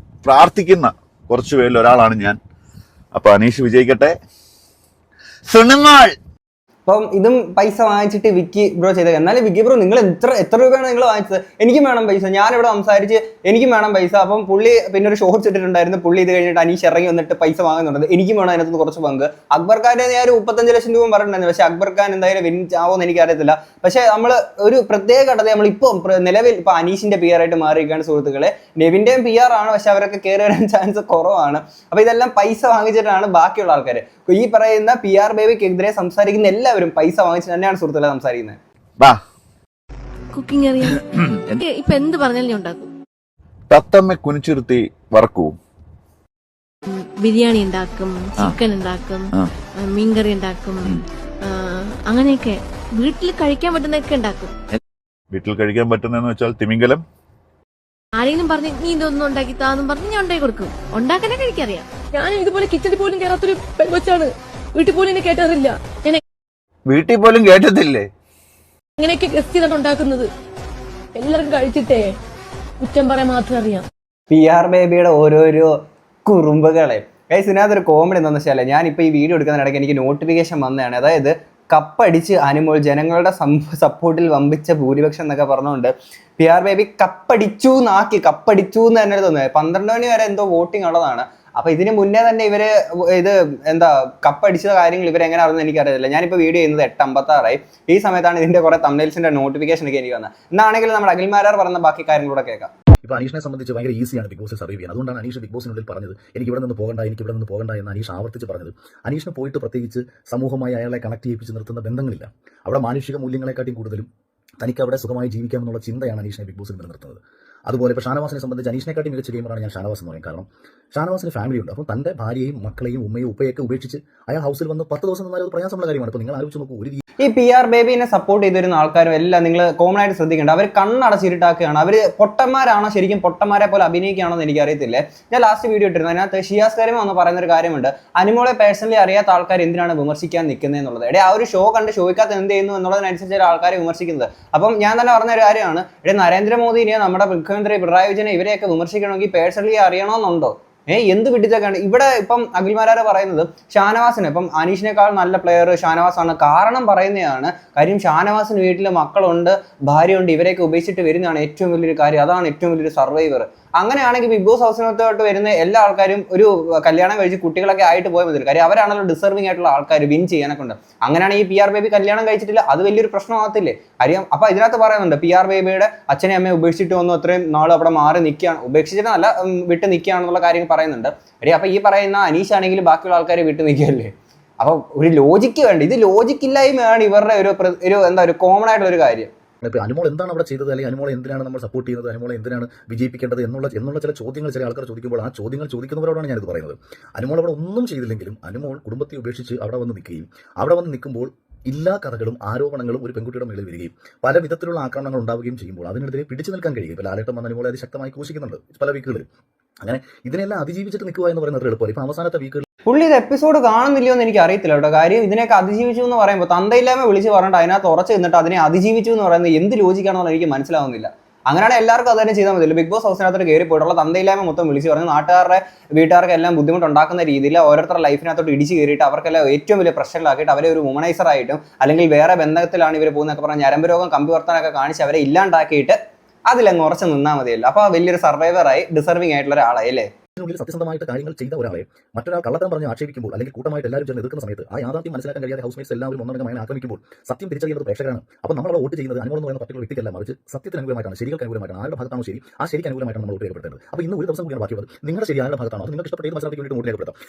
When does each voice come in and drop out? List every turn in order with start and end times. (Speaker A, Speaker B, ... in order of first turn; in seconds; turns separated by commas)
Speaker A: 0.2-2.4, Speaker A: 3.1-4.1, Speaker A: 5.5-6.1, Speaker B: 6.8-38.6, Speaker C: 40.3-42.9, Speaker A: 41.2-41.6, Speaker A: 43.7-45.5, Speaker C: 46.9-54.5, Speaker A: 55.3-57.0, Speaker C: 58.2-61.9, Speaker D: 62.1-66.2, Speaker A: 66.9-68.1, Speaker D: 69.0-70.3, Speaker D: 71.1-72.1, Speaker D: 72.8-73.8, Speaker B: 74.3-75.7, Speaker B: 76.2-102.7, Speaker E: 103.0-114.1, Speaker E: 114.6-127.0, Speaker B: 127.2-189.3, Speaker E: 189.6-209.3, Speaker E: 209.8-212.7, Speaker B: 212.9-236.0, Speaker B: 236.5-240.1, Speaker E: 240.4-257.1